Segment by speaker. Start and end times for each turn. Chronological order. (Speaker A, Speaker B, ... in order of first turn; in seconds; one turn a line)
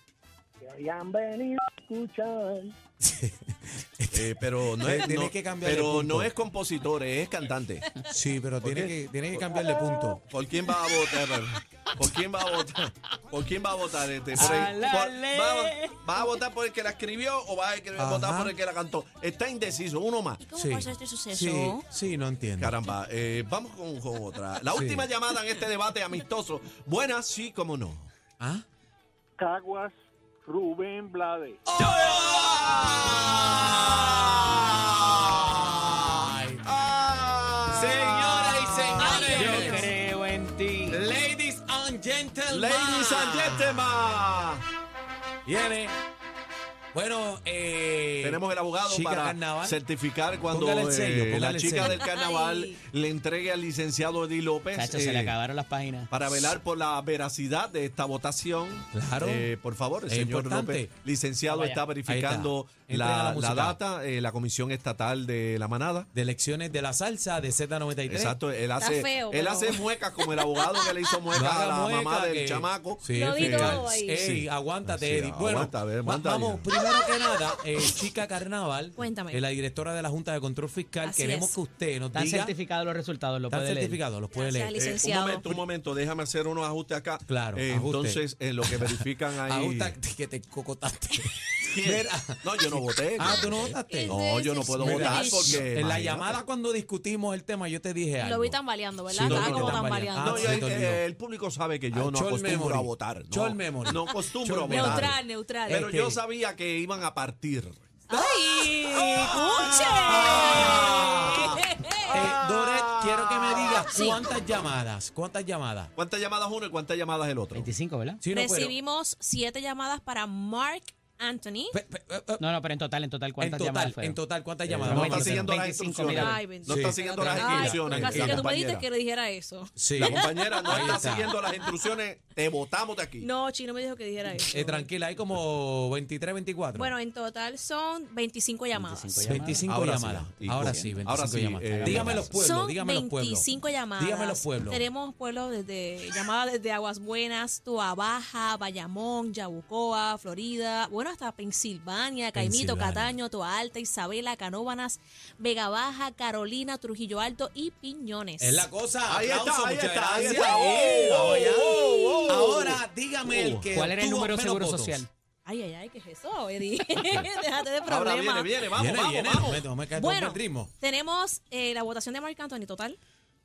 Speaker A: 0.6-2.7
Speaker B: 3.0-6.3
Speaker C: 4.1-7.9
Speaker B: 8.1-10.2
Speaker C: 8.6-20.4
Speaker D: 14.4-15.9
Speaker B: 14.4-14.8
Speaker B: 18.0-18.5
Speaker E: 20.4-21.8
Speaker B: 20.6-22.8
Speaker C: 22.6-28.1
Speaker B: 24.8-25.1
Speaker F: 29.4-31.6
Speaker B: 31.7-36.6
Speaker C: 31.8-34.7
Speaker C: 36.6-39.8
Speaker B: 37.7-39.9
Speaker E: 39.0-39.9
Speaker D: 39.3-41.0
Speaker B: 40.9-44.0
Speaker C: 42.5-44.6
Speaker B: 45.5-46.0
Speaker B: 46.9-49.8
Speaker C: 48.2-55.4
Speaker B: 50.5-52.0
Speaker E: 51.8-52.8
Speaker D: 54.7-56.1
Speaker C: 56.1-66.1
Speaker B: 58.9-59.5
Speaker B: 60.1-60.9
Speaker D: 61.5-61.8
Speaker B: 62.1-63.8
Speaker B: 66.1-68.3
Speaker C: 68.1-76.7
Speaker E: 68.8-71.0
Speaker B: 71.3-82.5
Speaker E: 73.1-74.2
Speaker E: 79.0-79.4
Speaker E: 81.0-81.6
Speaker D: 82.1-84.0
Speaker B: 83.5-84.7
Speaker E: 84.3-85.5
Speaker C: 84.8-90.0
Speaker B: 87.3-94.2
Speaker C: 91.7-96.4
Speaker E: 93.2-95.7
Speaker B: 94.8-101.0
Speaker E: 98.2-100.7
Speaker C: 99.2-107.9
Speaker B: 101.9-106.2
Speaker E: 103.9-105.8
Speaker E: 108.1-112.2
Speaker C: 108.9-113.9
Speaker B: 110.1-111.5
Speaker B: 112.1-115.9
Speaker E: 113.9-114.2
Speaker C: 116.0-117.7
Speaker D: 117.5-118.2
Speaker B: 118.2-118.8
Speaker E: 118.3-121.8
Speaker B: 121.7-122.4
Speaker D: 122.4-126.5
Speaker B: 123.4-125.6
Speaker C: 124.7-128.9
Speaker E: 126.0-131.8
Speaker B: 126.7-128.5
Speaker B: 129.8-131.3
Speaker C: 130.0-133.3
Speaker E: 133.2-134.9
Speaker B: 134.5-136.9
Speaker E: 136.8-139.4
Speaker D: 138.7-139.7
Speaker B: 139.3-143.5
Speaker C: 139.7-142.3
Speaker D: 140.5-141.0
Speaker D: 141.7-142.4
Speaker E: 142.4-158.7
Speaker B: 144.0-144.8
Speaker B: 152.3-153.1
Speaker B: 158.4-165.1
Speaker C: 159.1-163.7
Speaker E: 160.2-160.9
Speaker E: 161.7-162.3
Speaker D: 163.7-165.1
Speaker E: 165.5-168.5
Speaker C: 167.9-169.7
Speaker B: 168.7-170.7
Speaker E: 170.0-173.0